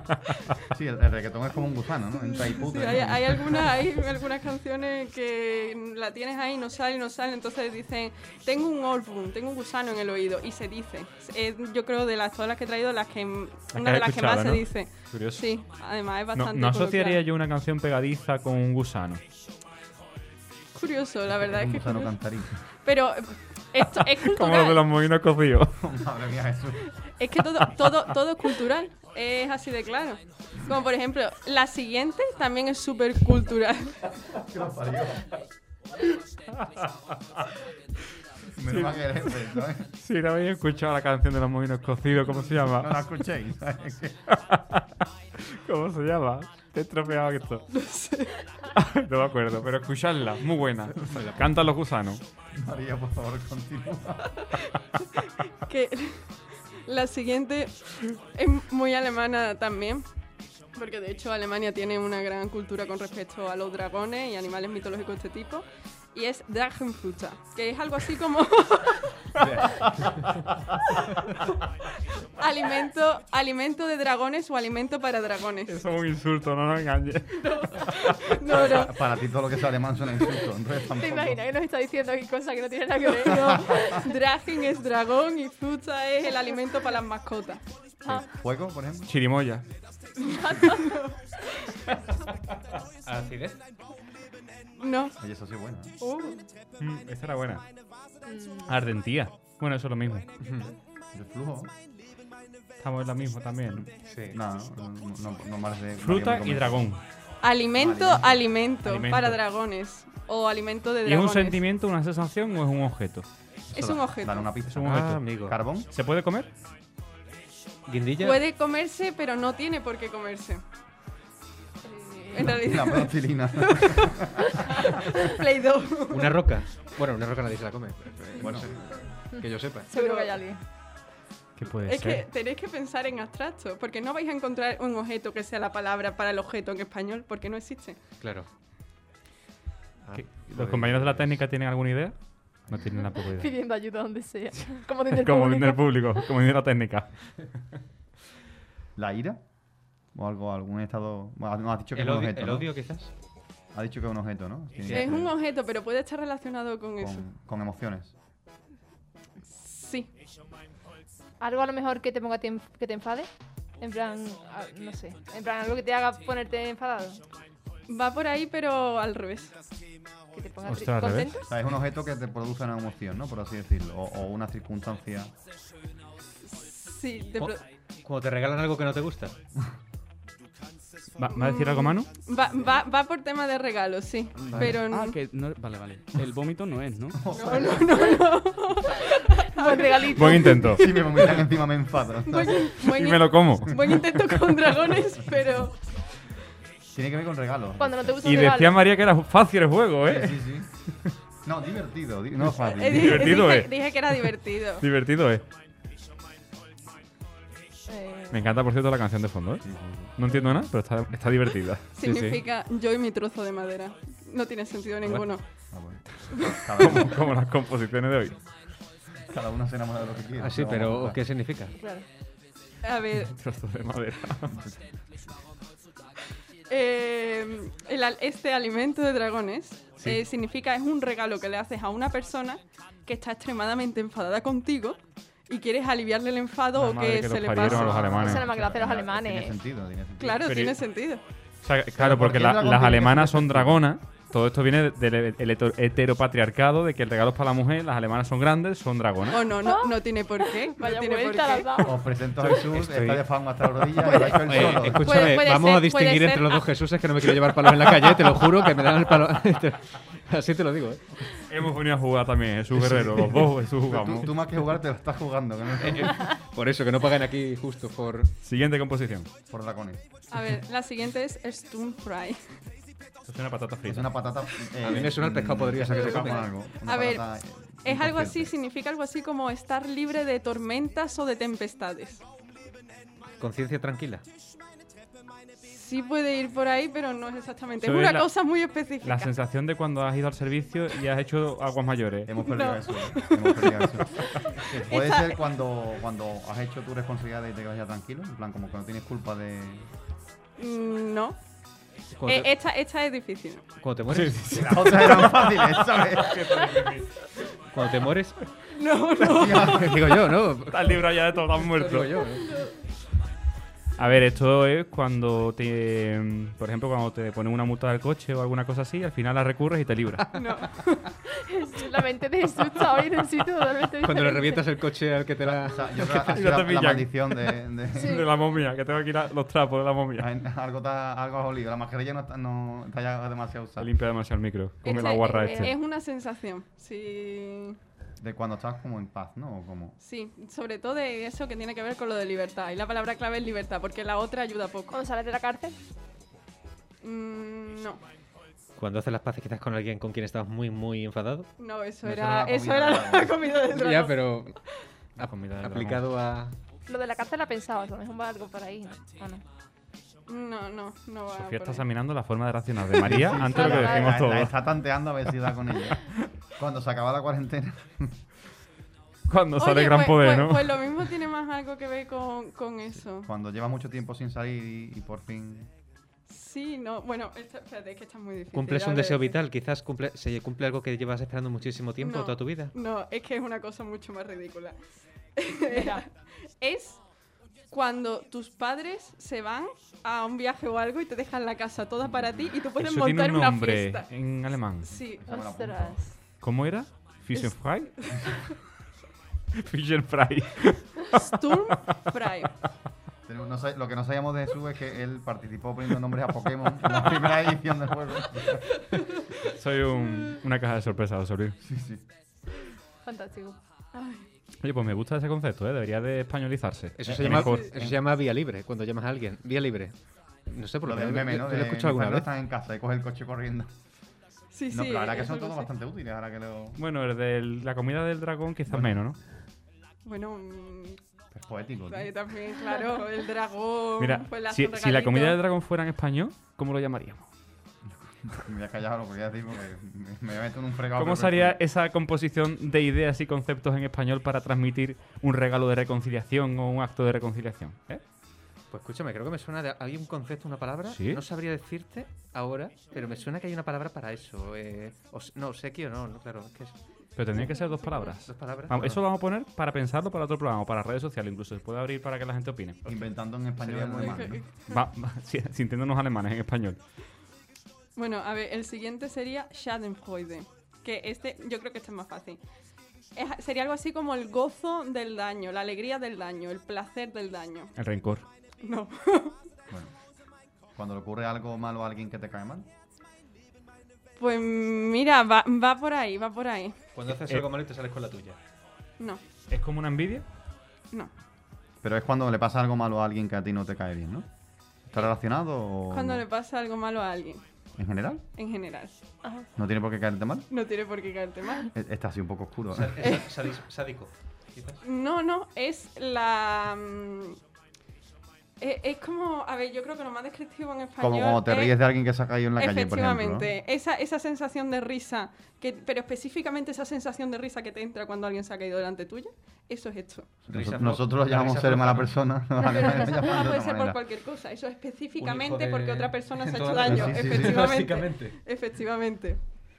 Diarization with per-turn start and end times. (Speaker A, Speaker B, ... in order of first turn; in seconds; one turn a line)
Speaker A: 0.7-3.8
Speaker B: 2.3-17.2
Speaker C: 13.7-19.2
Speaker B: 20.7-24.8
Speaker A: 21.3-22.6
Speaker C: 24.2-26.0
Speaker A: 25.8-26.9
Speaker B: 27.2-34.0
Speaker A: 34.3-35.3
Speaker C: 36.6-36.9
Speaker A: 38.5-39.9
Speaker C: 38.7-39.0
Speaker C: 39.9-43.0
Speaker A: 42.4-44.2
Speaker C: 44.3-47.7
Speaker B: 47.7-48.5
Speaker C: 48.7-52.2
Speaker D: 51.0-51.5
Speaker A: 52.5-54.5
Speaker B: 55.6-60.0
Speaker B: 60.7-69.4
Speaker A: 69.7-70.1
Speaker D: 69.9-70.3
Speaker B: 72.4-75.8
Speaker C: 75.7-78.2
Speaker B: 77.4-79.0
Speaker A: 78.5-81.4
Speaker E: 80.9-84.1
Speaker B: 83.0-88.0
Speaker A: 83.3-83.9
Speaker A: 88.0-89.1
Speaker C: 89.0-89.9
Speaker B: 90.3-91.7
Speaker E: 90.5-90.8
Speaker D: 93.0-93.6
Speaker B: 94.8-95.2
Speaker A: 95.2-95.9
Speaker E: 96.0-96.5
Speaker C: 96.8-98.0
Speaker E: 98.2-98.8
Speaker C: 98.7-100.3
Speaker D: 100.4-100.7
Speaker A: 101.1-101.7
Speaker C: 102.8-103.8
Speaker D: 104.0-104.4
Speaker A: 104.3-106.9
Speaker C: 106.0-107.0
Speaker B: 107.4-111.6
Speaker A: 107.7-108.4
Speaker C: 108.8-109.4
Speaker C: 111.0-113.3
Speaker B: 113.7-114.5
Speaker A: 113.7-115.9
Speaker C: 114.7-115.4
Speaker D: 114.8-115.6
Speaker C: 115.9-116.5
Speaker D: 117.8-118.4
Speaker B: 118.2-120.6
Speaker E: 121.8-122.6
Speaker B: 122.3-124.1
Speaker A: 122.4-124.5
Speaker B: 124.8-126.6
Speaker D: 126.1-129.9
Speaker A: 128.4-128.7
Speaker E: 129.3-130.6
Speaker B: 129.9-130.4
Speaker C: 131.6-132.2
Speaker B: 131.8-138.0
Speaker D: 138.2-138.5
Speaker D: 140.0-141.4
Speaker C: 140.1-143.5
Speaker E: 143.2-146.2
Speaker C: 145.1-147.6
Speaker A: 148.9-149.4
Speaker A: 150.1-152.8
Speaker D: 151.9-153.1
Speaker A: 153.7-155.3
Speaker D: 154.9-155.2
Speaker B: 154.9-157.3
Speaker A: 157.0-158.1
Speaker B: 159.4-160.1
Speaker E: 161.4-167.2
Speaker B: 167.9-169.6
Speaker E: 170.3-171.5
Speaker C: 170.7-171.4
Speaker A: 171.4-175.3
Speaker B: 176.4-177.6
Speaker D: 177.4-179.3
Speaker C: 181.1-182.1
Speaker B: 181.3-185.2
Speaker F: 184.3-187.2
Speaker A: 184.5-184.8
Speaker A: 187.1-188.1
Speaker B: 187.3-191.4
Speaker E: 189.6-190.9
Speaker C: 190.1-190.9
Speaker A: 190.6-192.8
Speaker B: 192.2-196.1
Speaker C: 192.8-193.8
Speaker A: 196.9-198.5
Speaker E: 197.8-198.8
Speaker C: 198.2-201.1
Speaker A: 200.1-203.5
Speaker B: 202.8-204.8
Speaker C: 202.9-205.4
Speaker E: 207.9-208.4
Speaker C: 208.3-212.4
Speaker A: 209.6-210.6
Speaker B: 211.9-216.7
Speaker D: 212.0-212.3
Speaker D: 215.1-215.7
Speaker A: 215.7-217.3
Speaker C: 216.8-218.4
Speaker A: 219.3-221.2
Speaker D: 220.4-221.8
Speaker E: 221.8-222.1
Speaker B: 222.8-223.4
Speaker C: 223.3-224.6
Speaker A: 224.5-224.9
Speaker B: 226.7-238.2
Speaker C: 236.7-238.5
Speaker A: 237.6-240.5
Speaker E: 238.2-239.6
Speaker B: 240.2-241.2
Speaker C: 240.4-249.5
Speaker A: 241.9-243.8
Speaker B: 249.3-251.9
Speaker E: 249.6-252.0
Speaker A: 251.8-255.3
Speaker D: 252.4-261.4
Speaker E: 254.0-254.9
Speaker B: 254.8-256.6
Speaker C: 261.4-264.3
Speaker A: 262.7-266.3
Speaker D: 263.0-263.4
Speaker D: 265.8-268.3
Speaker C: 268.4-269.3
Speaker A: 269.5-270.0
Speaker B: 270.3-272.6
Speaker C: 273.2-274.1
Speaker A: 273.9-278.5
Speaker D: 274.8-276.5
Speaker B: 275.8-277.3
Speaker B: 277.8-282.2
Speaker D: 283.4-284.2
Speaker B: 285.6-289.3
Speaker C: 287.8-288.3
Speaker C: 289.0-292.4
Speaker A: 292.2-299.9
Speaker B: 292.4-295.4
Speaker B: 300.6-301.4
Speaker D: 302.1-302.5
Speaker B: 302.2-303.7
Speaker D: 303.8-305.3
Speaker C: 304.1-307.3
Speaker A: 304.5-306.6
Speaker D: 307.7-308.4
Speaker B: 308.7-310.0
Speaker A: 309.2-310.0
Speaker D: 309.6-312.6
Speaker C: 310.6-312.2
Speaker C: 313.9-320.3
Speaker B: 320.3-321.1
Speaker E: 321.3-324.6
Speaker D: 324.0-326.6
Speaker A: 325.4-328.3
Speaker C: 326.3-330.3
Speaker E: 327.9-328.3
Speaker A: 330.2-333.9
Speaker C: 333.8-335.7
Speaker E: 334.8-335.7
Speaker B: 334.8-337.8
Speaker A: 338.2-339.9
Speaker B: 340.0-344.9
Speaker E: 344.9-345.8
Speaker B: 347.0-348.0
Speaker D: 348.8-351.5
Speaker B: 351.6-354.5
Speaker A: 352.0-353.5
Speaker D: 353.6-354.6
Speaker D: 355.1-356.5
Speaker C: 355.2-356.0
Speaker E: 356.9-359.4
Speaker B: 360.2-361.9
Speaker C: 361.3-364.6
Speaker A: 363.0-368.2
Speaker E: 363.4-364.2
Speaker C: 369.3-370.8
Speaker B: 369.6-373.3
Speaker A: 373.2-375.7
Speaker B: 376.3-379.4
Speaker D: 378.5-382.7
Speaker B: 382.0-395.3
Speaker E: 385.7-386.0
Speaker A: 392.1-392.5
Speaker C: 392.8-394.9
Speaker A: 395.1-396.1
Speaker E: 395.3-396.2
Speaker C: 396.4-398.1
Speaker B: 397.4-398.3
Speaker C: 399.6-401.8
Speaker B: 401.1-402.6
Speaker A: 403.2-408.6
Speaker C: 409.5-411.6
Speaker A: 411.6-412.0
Speaker E: 413.0-413.6
Speaker B: 413.9-414.3
Speaker C: 414.6-417.7
Speaker D: 417.0-422.3
Speaker A: 417.0-418.0
Speaker B: 417.3-417.7
Speaker A: 420.8-423.7
Speaker B: 424.5-425.7
Speaker A: 424.7-426.8
Speaker C: 426.8-429.2
Speaker A: 428.7-429.0
Speaker B: 430.0-431.0
Speaker A: 431.3-432.1
Speaker B: 431.9-435.4
Speaker C: 434.0-437.3
Speaker A: 437.8-441.6
Speaker C: 441.0-448.0
Speaker D: 448.7-457.0
Speaker C: 450.9-451.2
Speaker C: 457.1-462.9
Speaker B: 457.4-458.1
Speaker D: 458.2-459.0
Speaker A: 458.7-459.0
Speaker A: 462.9-464.4
Speaker D: 463.6-464.4
Speaker B: 464.0-464.8
Speaker C: 464.7-466.8
Speaker B: 467.9-472.4
Speaker B: 473.1-477.8
Speaker C: 477.8-478.2
Speaker B: 478.6-479.4
Speaker A: 479.7-479.9
Speaker A: 480.7-482.7
Speaker B: 484.1-486.8
Speaker D: 486.9-488.4
Speaker C: 487.1-487.5
Speaker B: 489.0-489.2
Speaker C: 489.5-490.3
Speaker A: 491.8-496.2
Speaker B: 495.9-497.4
Speaker A: 497.8-498.2
Speaker B: 498.4-498.9
Speaker E: 499.2-499.5
Speaker A: 499.6-500.5
Speaker B: 500.5-501.7
Speaker A: 501.7-503.1
Speaker D: 502.7-504.8
Speaker B: 504.8-507.4
Speaker B: 508.6-511.8
Speaker A: 511.0-513.5
Speaker B: 512.6-520.4
Speaker A: 520.5-524.0
Speaker D: 520.5-522.4
Speaker B: 522.7-529.4
Speaker D: 525.2-528.4
Speaker A: 526.8-527.9